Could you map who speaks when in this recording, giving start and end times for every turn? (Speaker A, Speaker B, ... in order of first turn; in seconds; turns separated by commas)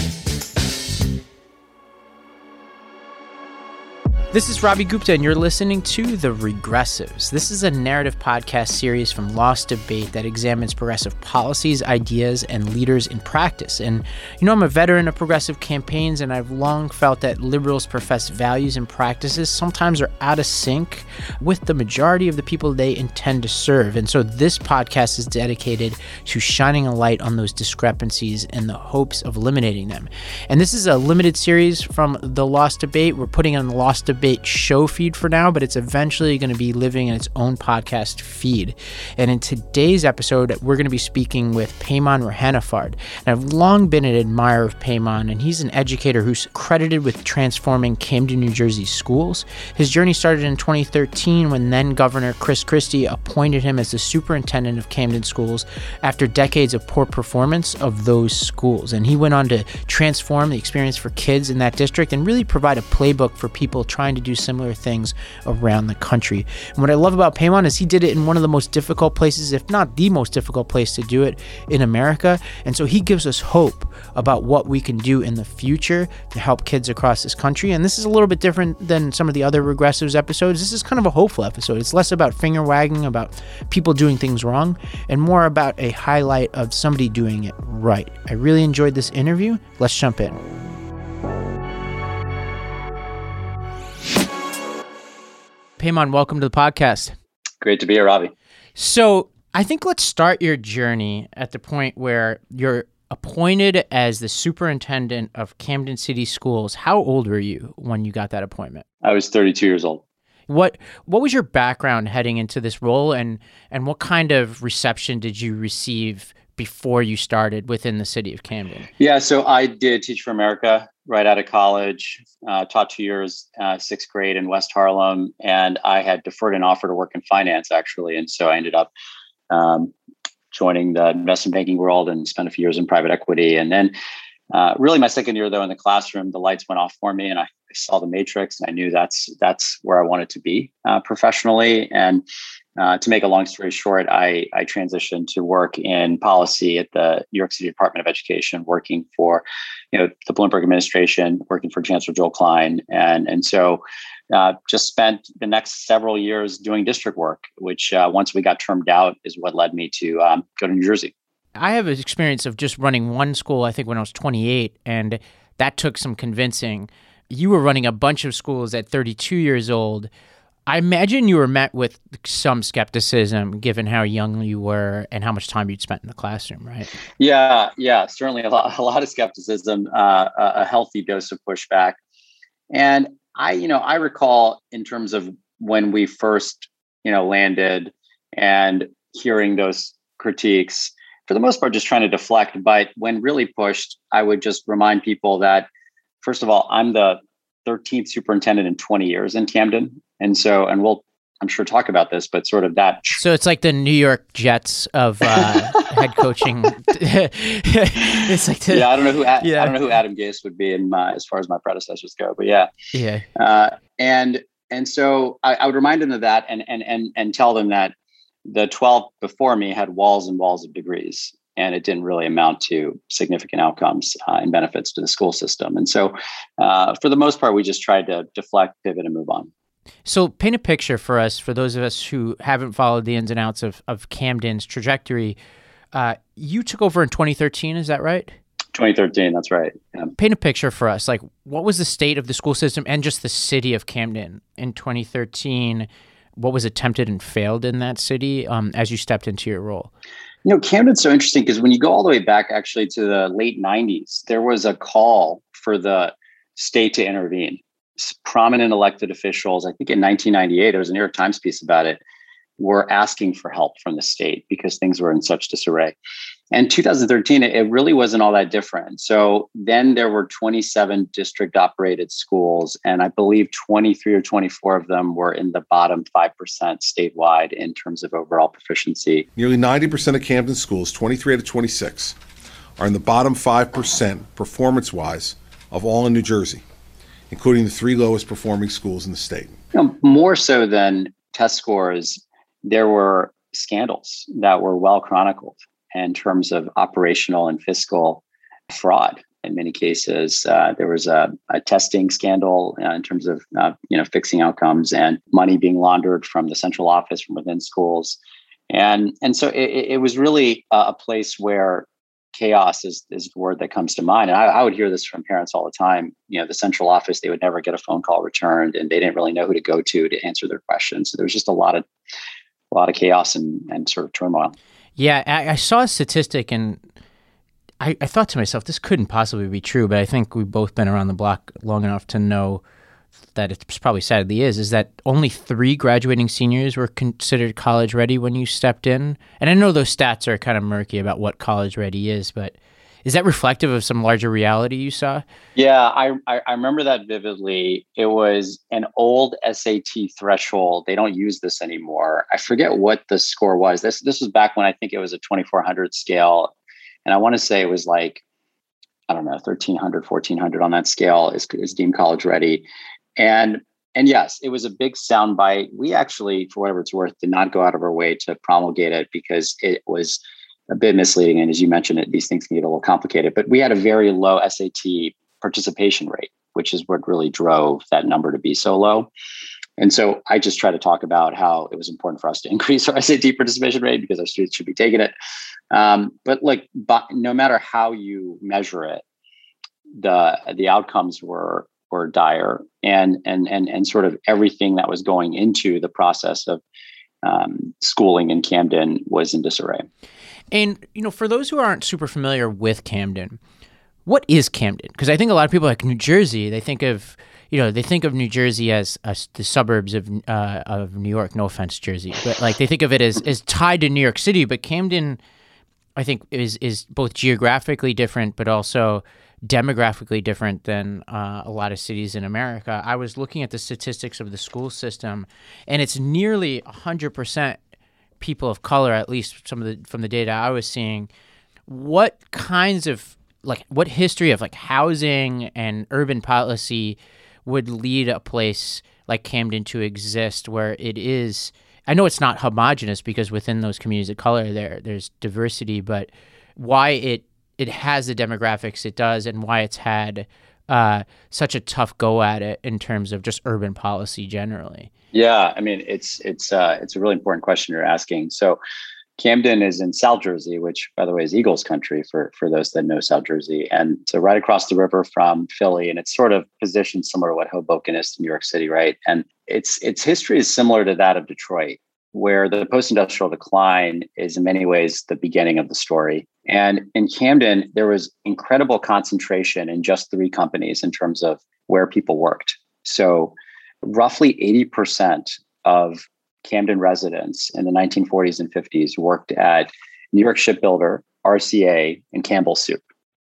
Speaker A: 4.3-90.4, Speaker A: 95.8-97.1, Speaker B: 97.6-98.3, Speaker A: 98.8-108.8, Speaker B: 109.0-110.0, Speaker A: 110.5-118.9, Speaker B: 119.0-128.9, Speaker B: 129.5-129.9, Speaker B: 130.5-133.9, Speaker B: 134.5-142.2, Speaker B: 142.8-161.1, Speaker A: 161.6-170.1, Speaker A: 170.7-176.9, Speaker B: 177.2-182.0, Speaker B: 182.7-195.7, Speaker B: 196.2-203.2, Speaker A: 203.2-208.9, Speaker B: 208.7-212.7, Speaker A: 209.4-209.8, Speaker A: 212.9-213.2, Speaker B: 213.3-217.9, Speaker B: 218.4-229.5, Speaker A: 230.1-235.4, Speaker A: 235.9-238.3, Speaker B: 238.7-240.1, Speaker A: 240.2-249.9, Speaker B: 250.4-262.0, Speaker B: 262.6-265.9, Speaker B: 266.5-279.2, Speaker C: 279.4-282.1, Speaker C: 282.8-286.6, Speaker C: 287.3-289.6, Speaker B: 289.7-308.2, Speaker B: 308.7-321.8, Speaker B: 322.7-324.5, Speaker A: 325.0-326.8, Speaker A: 327.8-332.6, Speaker A: 333.3-345.2, Speaker B: 345.6-356.5, Speaker B: 357.0-358.2, Speaker B: 359.1-362.6, Speaker B: 363.2-379.1, Speaker B: 379.8-385.1, Speaker B: 385.7-389.0, Speaker B: 389.9-396.6, Speaker B: 397.2-399.9, Speaker A: 400.5-403.4, Speaker A: 404.1-415.2, Speaker A: 415.9-427.6, Speaker A: 428.2-431.1, Speaker A: 431.7-454.9, Speaker B: 455.1-458.6, Speaker B: 459.2-492.8